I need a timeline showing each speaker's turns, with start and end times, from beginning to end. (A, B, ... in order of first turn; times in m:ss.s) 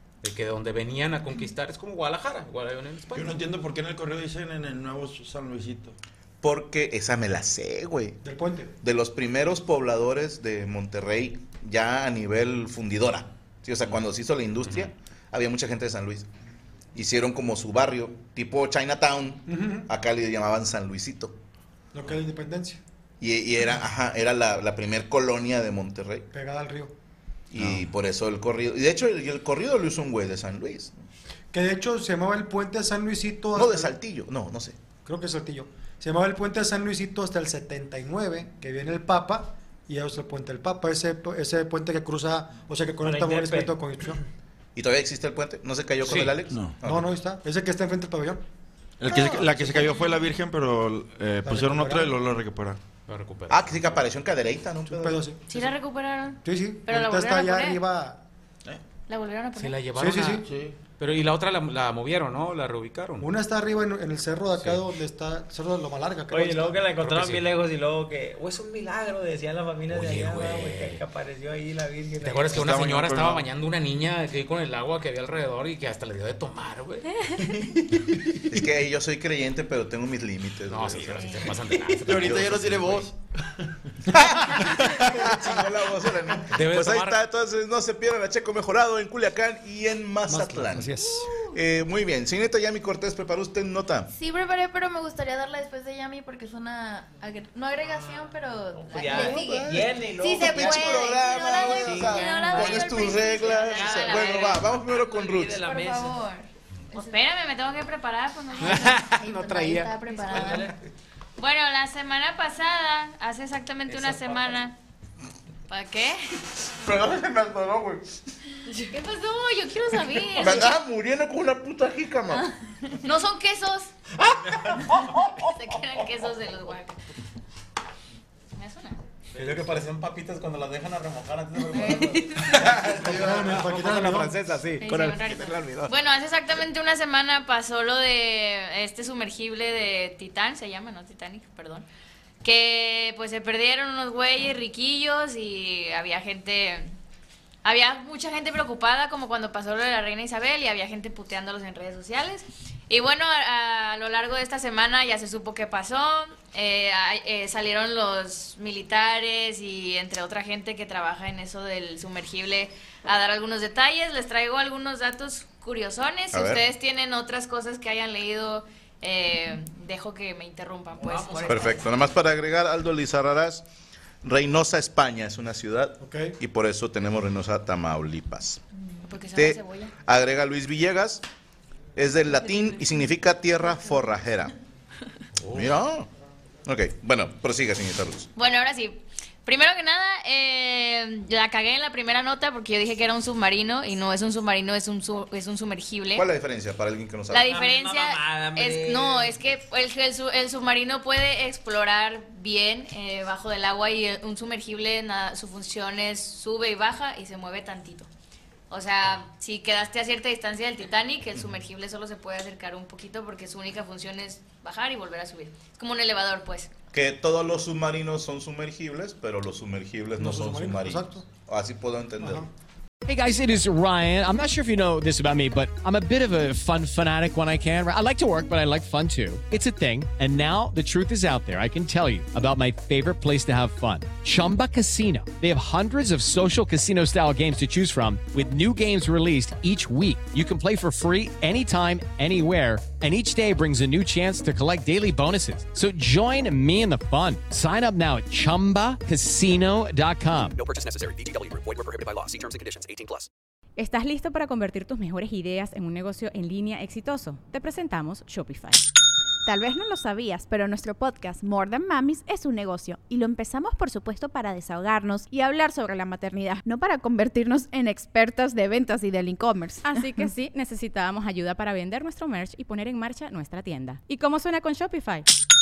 0:00.2-0:03.4 A
0:03.1-0:06.0 B
0:06.4-0:08.2 C
0:08.2-0:08.7 D
0:08.8-0:16.3 C
0:16.9-0:21.4 C
0:19.5-0:19.9 D
0:21.9-0:22.8 D
0:23.2-0:26.3 C
0:26.3-0:26.9 D
0:27.5-0:31.0 C
0:31.5-0:33.9 D
0:33.5-0:34.8 C
0:35.0-0:44.2 D
0:43.0-0:43.8 E
0:44.8-0:47.1 C
0:46.0-0:46.4 A
0:46.5-0:46.8 B
0:46.8-0:48.4 D
0:49.0-0:52.8 B
0:49.5-0:49.8 D
0:51.4-0:52.2 D
0:53.1-0:53.8 A
0:53.5-0:55.2 C
0:54.8-0:55.7 D
0:55.5-0:57.8 F
0:56.4-0:58.2 D
0:59.1-0:59.8 F
0:59.6-1:00.4 A
0:59.9-1:00.5 D
1:00.4-1:00.8 B
1:01.0-1:03.3 A
1:03.2-1:06.8 D
1:06.3-1:12.5 E
1:07.0-1:07.5 A
1:09.9-1:11.0 A
1:12.2-1:17.2 A
1:12.5-1:13.5 B
1:18.5-1:21.6 C
1:20.7-1:23.0 A
1:22.0-1:25.2 B
1:22.2-1:22.6 C
1:24.1-1:34.1 C
1:26.5-1:27.2 A
1:30.3-1:31.3 D
1:34.1-1:44.0 G
1:37.9-1:46.2 E
1:39.1-1:45.7 C
1:43.6-1:44.5 F
1:45.6-1:47.1 G
1:46.9-1:49.0 F
1:48.6-1:50.6 A
1:48.6-1:50.7 G
1:50.2-1:50.8 E
1:51.4-1:54.7 F
1:54.0-1:54.3 A
1:55.7-1:56.4 F
1:56.8-1:58.2 C
1:58.9-2:00.6 F
2:00.4-2:02.5 C
2:03.0-2:03.9 F
2:05.4-2:07.0 F
2:08.5-2:09.0 F
2:09.3-2:15.9 A
2:11.7-2:12.7 F
2:12.6-2:13.6 B
2:13.0-2:14.3 D
2:14.8-2:21.8 F
2:22.4-2:26.9 F
2:27.6-2:51.8 F
2:46.3-2:46.6 C
2:51.0-2:51.8 E
2:51.4-2:53.6 C
2:54.2-2:58.6 C
2:56.0-2:56.3 D
2:59.0-2:59.9 F
2:59.3-3:01.2 C
3:02.0-3:04.5 C
3:05.4-3:05.8 A
3:05.5-3:06.1 C
3:06.6-3:08.3 C
3:08.4-3:16.2 F
3:16.1-3:17.6 C
3:17.3-3:28.1 F
3:17.4-3:19.4 E
3:28.7-3:36.7 F
3:36.9-3:42.5 C
3:40.2-3:41.2 D
3:42.2-3:42.5 D
3:43.0-4:10.6 H
4:10.5-4:13.3 I
4:13.8-4:18.8 J
4:19.4-4:30.2 K
4:29.8-4:35.2 J